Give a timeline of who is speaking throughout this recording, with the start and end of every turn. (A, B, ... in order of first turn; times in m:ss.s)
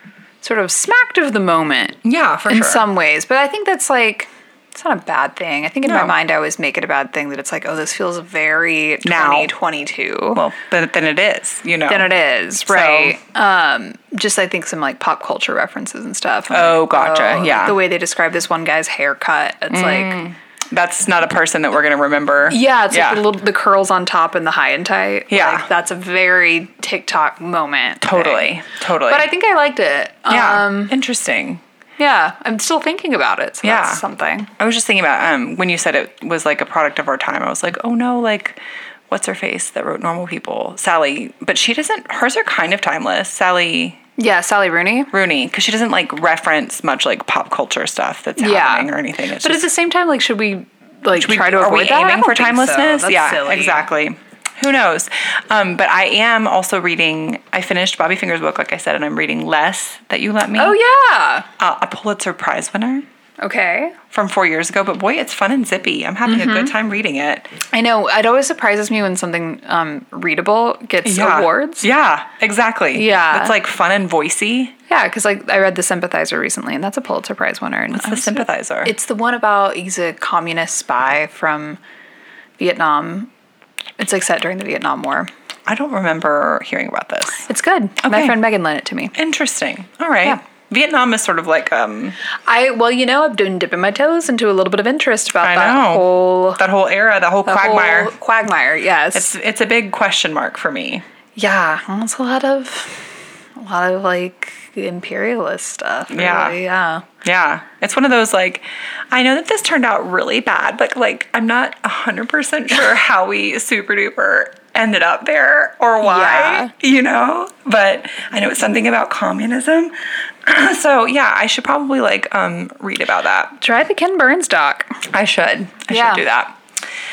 0:00.4-0:10.4 A
0:02.0-0:02.8 B
0:05.8-0:06.1 B
0:09.0-0:09.5 B
0:10.4-0:12.1 B
0:11.9-0:20.2 A
0:12.7-0:13.2 B
0:16.5-0:17.8 B
0:19.7-0:23.2 B
0:22.5-0:31.0 A
0:25.3-0:25.7 B
0:28.0-0:29.3 B
0:30.3-0:31.6 B
0:32.0-0:34.5 A
0:33.6-0:34.0 B
0:34.6-0:44.0 B
0:44.2-0:45.1 A
0:45.1-0:49.7 B
0:48.4-0:48.9 A
0:49.4-0:53.9 A
0:51.1-1:00.8 B
1:00.6-1:01.5 A
1:01.6-1:03.0 B
1:03.4-1:04.0 A
1:04.1-1:07.5 B
1:06.3-1:06.7 A
1:07.7-1:11.9 A
1:11.0-1:14.7 B
1:12.9-1:13.6 A
1:14.9-1:21.8 A
1:17.9-1:18.9 B
1:22.6-1:23.3 A
1:24.0-1:25.3 A
1:25.7-1:27.5 B
1:27.4-1:29.2 A
1:28.0-1:28.4 B
1:29.2-1:32.2 B
1:32.5-1:36.6 A
1:35.4-1:38.1 B
1:37.5-1:39.3 A
1:39.1-1:41.0 B
1:41.4-1:43.0 A
1:43.6-1:47.1 A
1:46.1-1:46.6 B
1:47.2-2:03.6 B
1:56.0-1:56.7 A
2:03.6-2:05.0 A
2:05.1-2:06.6 B
2:05.9-2:06.2 A